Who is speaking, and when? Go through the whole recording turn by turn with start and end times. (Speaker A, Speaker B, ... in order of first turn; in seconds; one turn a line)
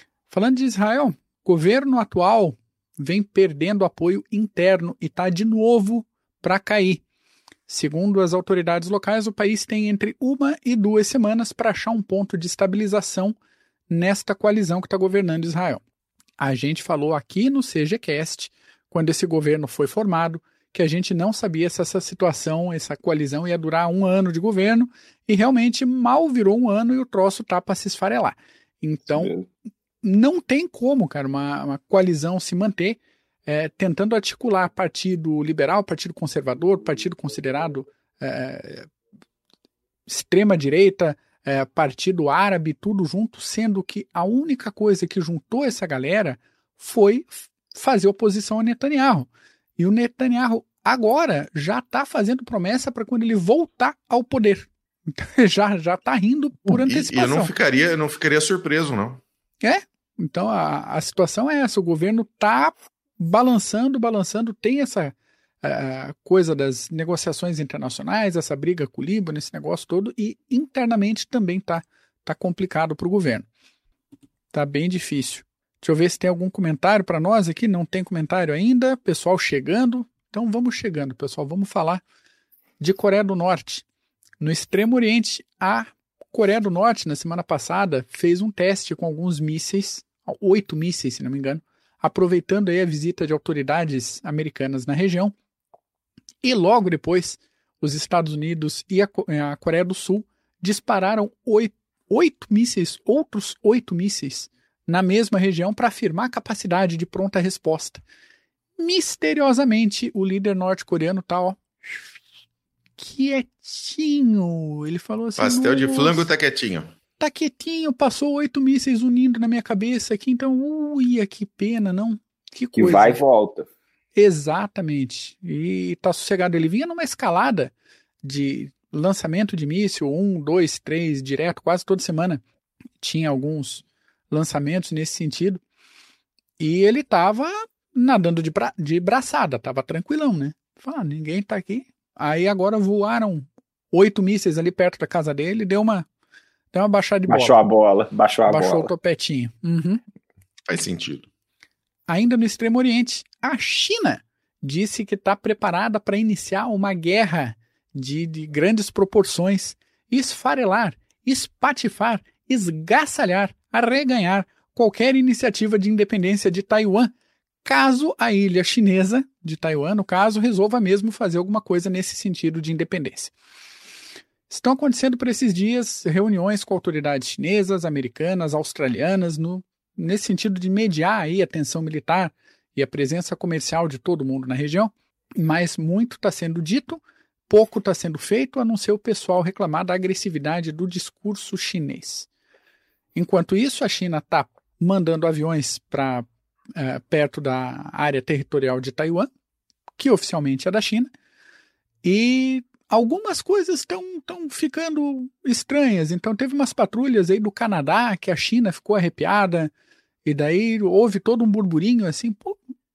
Speaker A: 0.3-7.0
Speaker A: 7.7-13.3
Speaker A: 13.9-15.8
Speaker A: 16.4-29.3
Speaker B: 29.1-29.4
Speaker A: 30.0-38.9
Speaker A: 40.1-57.5
Speaker C: 56.7-59.2
Speaker A: 59.6-73.5
Speaker A: 74.5-82.0
Speaker A: 82.8-83.8
Speaker A: 84.4-95.3
Speaker A: 96.4-108.0
Speaker A: 108.8-111.6
Speaker A: 113.0-116.3
Speaker C: 115.4-116.9
Speaker A: 117.2-123.2
Speaker B: 122.8-123.7
Speaker A: 124.2-132.4
Speaker A: 133.0-135.6
Speaker A: 136.6-146.1
Speaker A: 146.7-147.6
Speaker B: 147.3-148.9
Speaker A: 148.5-150.0
Speaker C: 150.7-151.3
Speaker A: 152.1-167.1
Speaker A: 167.6-173.3
Speaker A: 174.5-192.3
Speaker A: 193.2-199.3
Speaker A: 200.0-201.1
Speaker A: 202.0-209.7
Speaker A: 210.2-212.6